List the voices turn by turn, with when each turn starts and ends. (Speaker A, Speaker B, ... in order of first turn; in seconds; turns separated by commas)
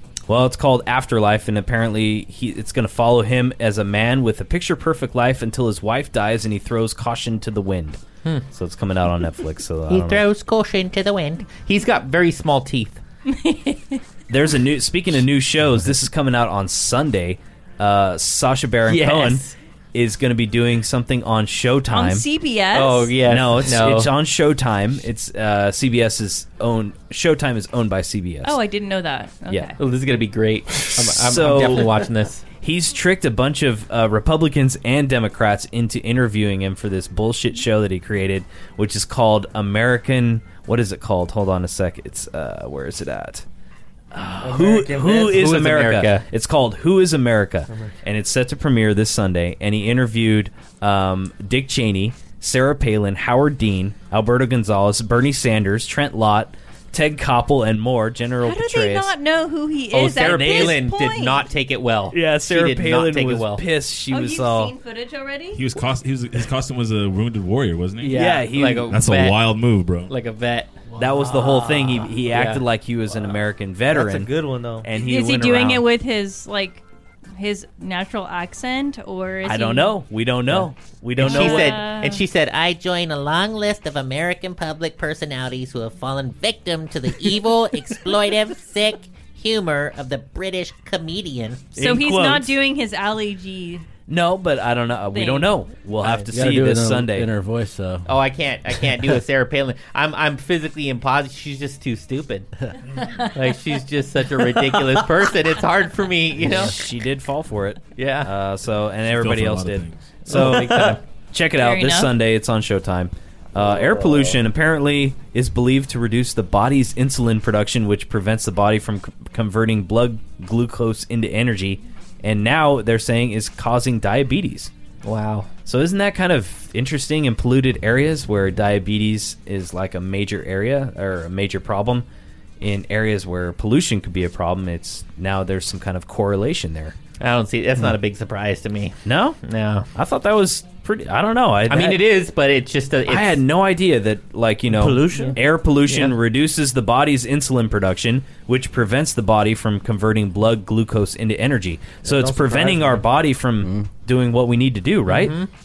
Speaker A: 0.3-8.0, Speaker A: 8.5-10.2, Speaker B: 9.9-13.0, Speaker C: 13.3-14.0, Speaker A: 14.3-22.2, Speaker B: 18.9-19.5, Speaker C: 21.9-23.2, Speaker B: 22.7-24.1, Speaker A: 23.2-28.6, Speaker C: 28.4-29.8, Speaker A: 29.5-29.7, Speaker B: 29.8-32.4, Speaker A: 30.9-31.9, Speaker A: 32.6-43.4, Speaker A: 44.1-59.1, Speaker D: 44.4-45.5, Speaker B: 45.3-46.2, Speaker C: 58.4-61.5, Speaker B: 59.9-63.6, Speaker A: 60.2-60.8, Speaker A: 62.1-64.7, Speaker C: 64.1-65.7, Speaker E: 65.5-68.2, Speaker B: 68.0-69.5, Speaker A: 68.1-69.0, Speaker E: 68.9-70.1, Speaker B: 70.1-72.6, Speaker A: 71.0-74.3, Speaker D: 71.2-71.5, Speaker D: 73.9-74.9, Speaker A: 74.8-75.8, Speaker C: 74.9-76.8, Speaker C: 77.4-80.0, Speaker A: 79.4-81.8, Speaker B: 80.5-91.6, Speaker C: 81.2-82.2, Speaker C: 91.7-93.8, Speaker A: 91.8-92.5, Speaker A: 94.1-97.3, Speaker C: 95.1-95.5, Speaker F: 96.0-98.1, Speaker B: 98.0-102.5, Speaker C: 103.0-103.3, Speaker B: 103.3-106.7, Speaker A: 106.4-124.7, Speaker B: 108.0-108.3, Speaker E: 109.1-110.2, Speaker B: 110.2-111.0, Speaker C: 111.5-112.1, Speaker D: 113.5-114.4, Speaker B: 125.0-125.5, Speaker A: 125.7-132.0, Speaker A: 132.6-136.9, Speaker B: 137.2-139.9, Speaker A: 139.0-139.4, Speaker A: 139.9-142.0, Speaker B: 141.7-143.4, Speaker A: 143.1-155.3, Speaker D: 144.7-145.4, Speaker B: 145.1-146.1, Speaker D: 152.0-153.0, Speaker F: 153.6-153.9, Speaker B: 155.1-155.5